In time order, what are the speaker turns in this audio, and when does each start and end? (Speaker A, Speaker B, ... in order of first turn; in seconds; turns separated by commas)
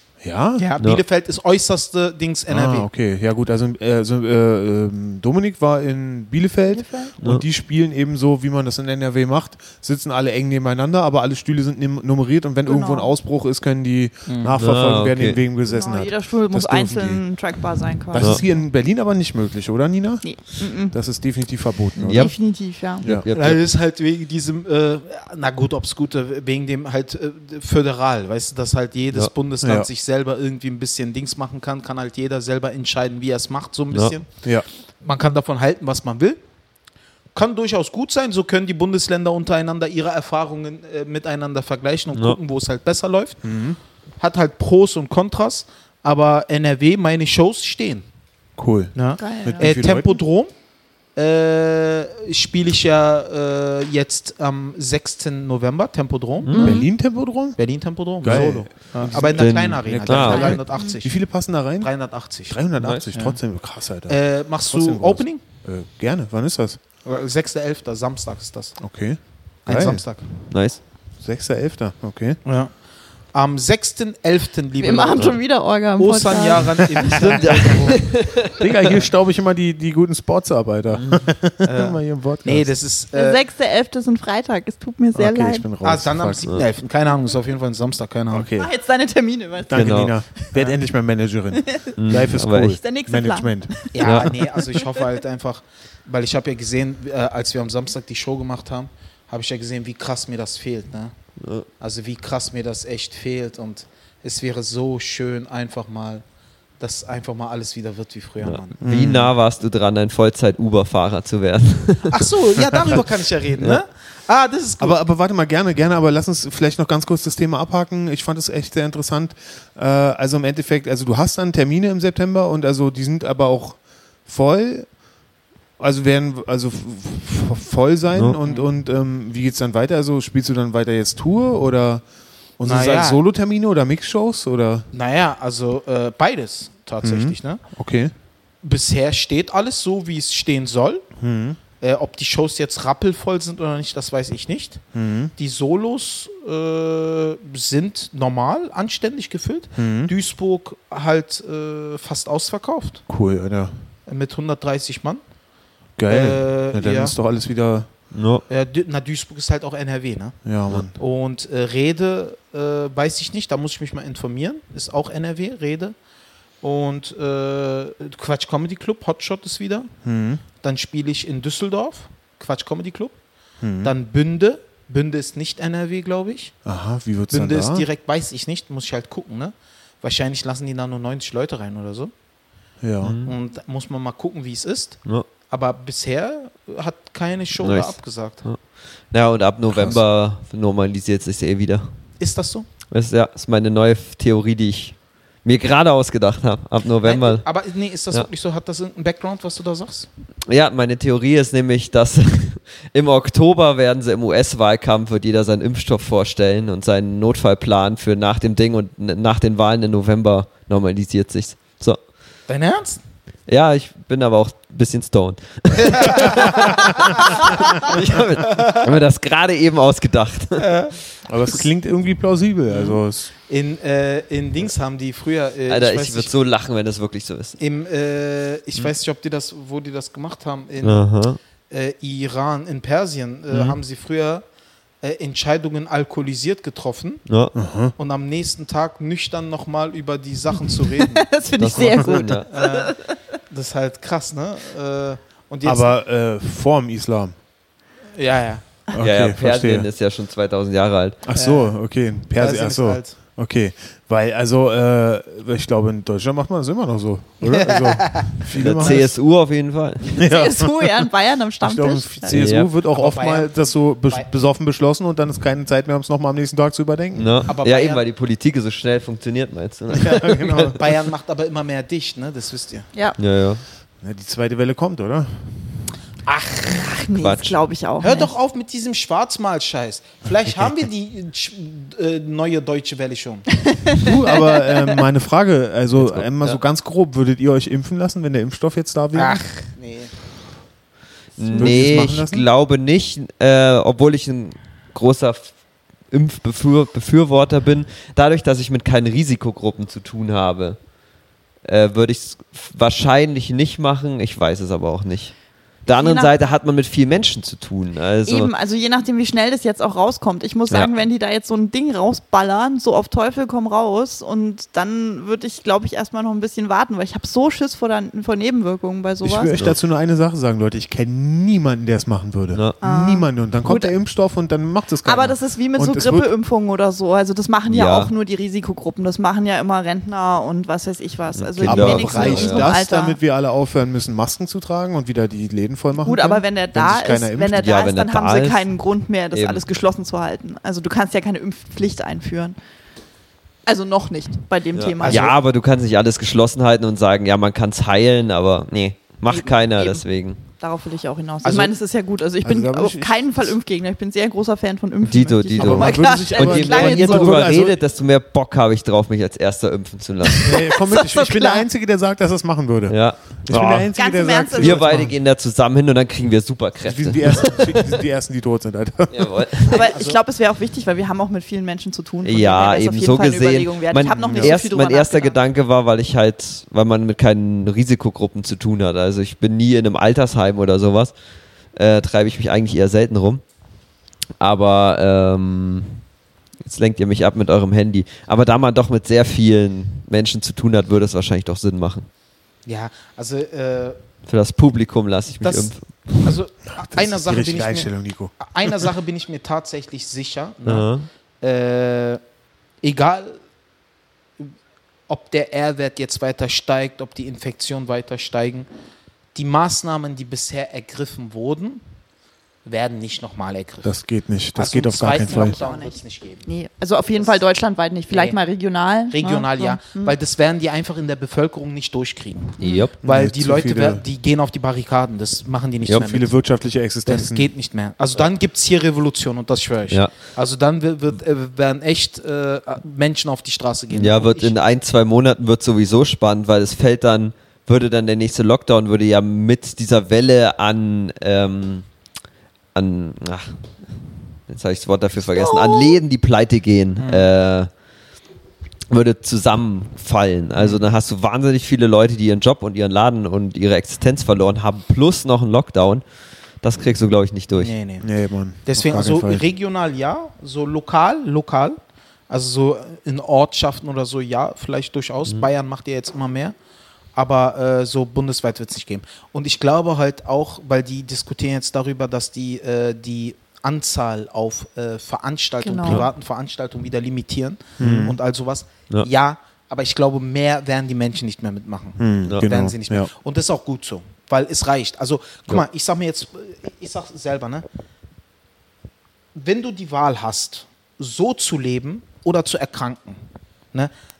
Speaker A: 0.2-0.7, Speaker B: 0.6-2.9, Speaker A: 2.5-17.2, Speaker C: 6.7-7.1, Speaker C: 12.7-13.1, Speaker B: 14.2-14.6, Speaker D: 14.6-15.4, Speaker C: 15.7-18.4, Speaker A: 18.1-22.3, Speaker D: 18.1-18.4, Speaker C: 20.2-21.0, Speaker D: 22.0-22.3, Speaker C: 22.1-23.0, Speaker D: 23.0-23.6, Speaker B: 23.3-34.3, Speaker A: 29.6-29.9, Speaker B: 35.0-36.4, Speaker B: 37.3-43.4, Speaker A: 43.4-43.8, Speaker B: 44.2-48.0, Speaker A: 48.6-50.2, Speaker B: 48.9-50.5, Speaker C: 49.2-49.7, Speaker B: 51.1-56.9, Speaker D: 56.4-56.8, Speaker A: 56.5-57.6, Speaker C: 56.6-56.9, Speaker B: 57.5-61.2, Speaker A: 58.2-61.9, Speaker D: 59.1-60.6, Speaker C: 60.3-60.9, Speaker B: 61.8-62.6, Speaker A: 62.4-66.8, Speaker D: 62.8-63.1, Speaker B: 63.1-63.4, Speaker B: 64.1-65.4, Speaker B: 67.0-68.8, Speaker A: 68.8-70.0, Speaker B: 69.6-70.2, Speaker D: 70.5-70.8, Speaker A: 71.2-72.4, Speaker B: 72.4-72.7, Speaker B: 73.3-75.4, Speaker C: 74.8-77.2, Speaker B: 76.0-78.2, Speaker D: 77.2-78.7, Speaker A: 77.3-82.7, Speaker D: 80.9-81.2, Speaker B: 81.6-83.4, Speaker C: 83.1-85.7, Speaker A: 85.1-86.5, Speaker B: 85.8-88.5, Speaker A: 88.3-88.7, Speaker C: 88.6-90.2, Speaker A: 89.7-93.9, Speaker D: 89.7-90.1, Speaker C: 91.5-92.0, Speaker D: 92.0-92.8, Speaker C: 92.6-94.8, Speaker B: 93.9-101.1, Speaker D: 94.0-94.4, Speaker D: 101.4-101.7, Speaker B: 101.8-106.2, Speaker B: 106.8-108.8, Speaker D: 108.4-112.3, Speaker A: 108.8-109.3, Speaker B: 112.1-115.0, Speaker A: 114.8-124.9, Speaker A: 125.8-132.0, Speaker A: 132.6-134.9, Speaker B: 132.7-133.2, Speaker B: 134.9-137.6, Speaker A: 137.0-138.1, Speaker B: 138.6-141.0, Speaker A: 141.2-141.6, Speaker B: 141.8-144.8, Speaker A: 144.9-145.3, Speaker B: 145.4-153.0, Speaker A: 149.8-150.1, Speaker A: 153.1-153.7, Speaker B: 154.1-155.2, Speaker A: 156.0-157.9, Speaker B: 156.1-157.1, Speaker D: 158.1-158.4, Speaker B: 158.5-160.3, Speaker A: 160.4-161.0, Speaker B: 160.9-165.9, Speaker B: 166.6-169.9, Speaker A: 170.0-170.4, Speaker B: 170.6-173.1, Speaker A: 173.6-173.9, Speaker B: 173.8-176.5, Speaker A: 176.6-177.8, Speaker B: 177.3-182.1, Speaker A: 182.8-183.2, Speaker D: 183.0-183.3, Speaker B: 183.2-188.4, Speaker D: 187.6-191.9, Speaker B: 192.2-192.7, Speaker D: 192.9-197.4, Speaker B: 197.0-200.1, Speaker D: 200.4-212.0, Speaker B: 212.5-213.0, Speaker D: 213.5-220.7, Speaker B: 215.8-217.0, Speaker B: 218.5-218.9, Speaker B: 220.6-220.9, Speaker A: 221.2-223.3, Speaker B: 222.7-223.0, Speaker B: 223.5-226.3, Speaker D: 225.7-227.6, Speaker B: 227.6-231.1, Speaker D: 230.8-231.4, Speaker B: 231.7-234.4, Speaker D: 233.5-233.8, Speaker B: 235.0-237.2, Speaker D: 237.3-237.5, Speaker A: 237.5-237.9, Speaker B: 238.0-241.3, Speaker C: 241.0-243.2, Speaker D: 241.6-242.5, Speaker B: 242.5-243.0, Speaker B: 243.5-245.9, Speaker A: 245.6-247.3, Speaker B: 248.2-248.6, Speaker A: 248.9-249.9, Speaker D: 249.0-251.2, Speaker A: 251.2-259.1, Speaker B: 251.3-251.8, Speaker B: 252.3-253.2, Speaker B: 257.4-259.0, Speaker D: 258.5-260.2, Speaker C: 260.1-262.3, Speaker A: 260.2-261.1, Speaker A: 261.6-267.4, Speaker D: 262.3-262.7, Speaker B: 262.9-264.3, Speaker D: 267.1-270.7, Speaker B: 267.5-268.0, Speaker B: 270.0-272.9, Speaker A: 270.1-270.7, Speaker D: 273.2-273.6, Speaker A: 274.0-275.6, Speaker B: 276.2-277.0, Speaker C: 276.7-278.3, Speaker D: 277.2-277.6, Speaker B: 278.0-283.4, Speaker C: 283.7-285.0, Speaker A: 284.0-289.4, Speaker D: 286.0-286.6, Speaker B: 289.1-290.1, Speaker D: 291.4-295.5, Speaker C: 291.4-291.7, Speaker A: 291.6-292.4, Speaker D: 296.1-300.8, Speaker D: 301.6-308.5, Speaker C: 306.0-306.3, Speaker C: 308.2-319.5, Speaker A: 319.2-326.3, Speaker C: 322.8-323.9, Speaker C: 325.0-333.2, Speaker D: 327.7-328.1, Speaker D: 331.4-332.7, Speaker A: 331.6-337.6, Speaker B: 331.8-332.7, Speaker C: 336.0-342.6, Speaker D: 337.6-338.6, Speaker D: 339.3-339.6, Speaker C: 343.6-345.4, Speaker D: 344.7-350.4, Speaker B: 345.1-345.3, Speaker C: 349.3-357.5, Speaker B: 351.4-351.7, Speaker A: 352.4-353.5, Speaker D: 355.0-360.6, Speaker A: 355.6-357.8, Speaker C: 360.3-361.6, Speaker A: 360.4-365.1, Speaker D: 362.9-363.9, Speaker C: 363.9-365.1, Speaker D: 364.5-368.0, Speaker A: 366.8-369.5, Speaker D: 369.1-369.9, Speaker C: 369.7-375.4, Speaker B: 369.7-370.2, Speaker D: 372.2-381.1, Speaker A: 374.2-374.5, Speaker D: 381.7-383.4, Speaker D: 384.4-386.0, Speaker D: 386.6-392.1, Speaker B: 392.6-394.0, Speaker D: 394.2-396.3, Speaker B: 396.2-400.9, Speaker A: 396.7-398.9, Speaker D: 400.6-401.1, Speaker B: 401.4-402.2, Speaker B: 402.8-403.4, Speaker B: 405.1-408.7, Speaker B: 409.3-411.8, Speaker B: 412.6-413.9, Speaker A: 413.8-415.6, Speaker B: 414.5-416.5, Speaker C: 415.1-420.1, Speaker B: 418.1-418.4, Speaker B: 419.1-426.4, Speaker D: 422.6-422.9, Speaker C: 422.6-422.9, Speaker A: 423.0-424.0, Speaker A: 425.9-427.5, Speaker B: 427.0-434.5, Speaker D: 433.9-441.9, Speaker D: 442.7-447.7, Speaker C: 445.3-446.0, Speaker B: 447.0-447.3, Speaker D: 448.9-456.0, Speaker B: 450.6-450.8, Speaker D: 456.6-457.7, Speaker B: 457.6-458.1, Speaker A: 458.0-459.4, Speaker B: 458.6-461.8, Speaker B: 462.3-466.5, Speaker B: 467.1-487.6, Speaker C: 475.6-476.1, Speaker A: 477.8-478.2, Speaker D: 477.8-478.1, Speaker A: 482.0-483.1, Speaker B: 489.4-493.2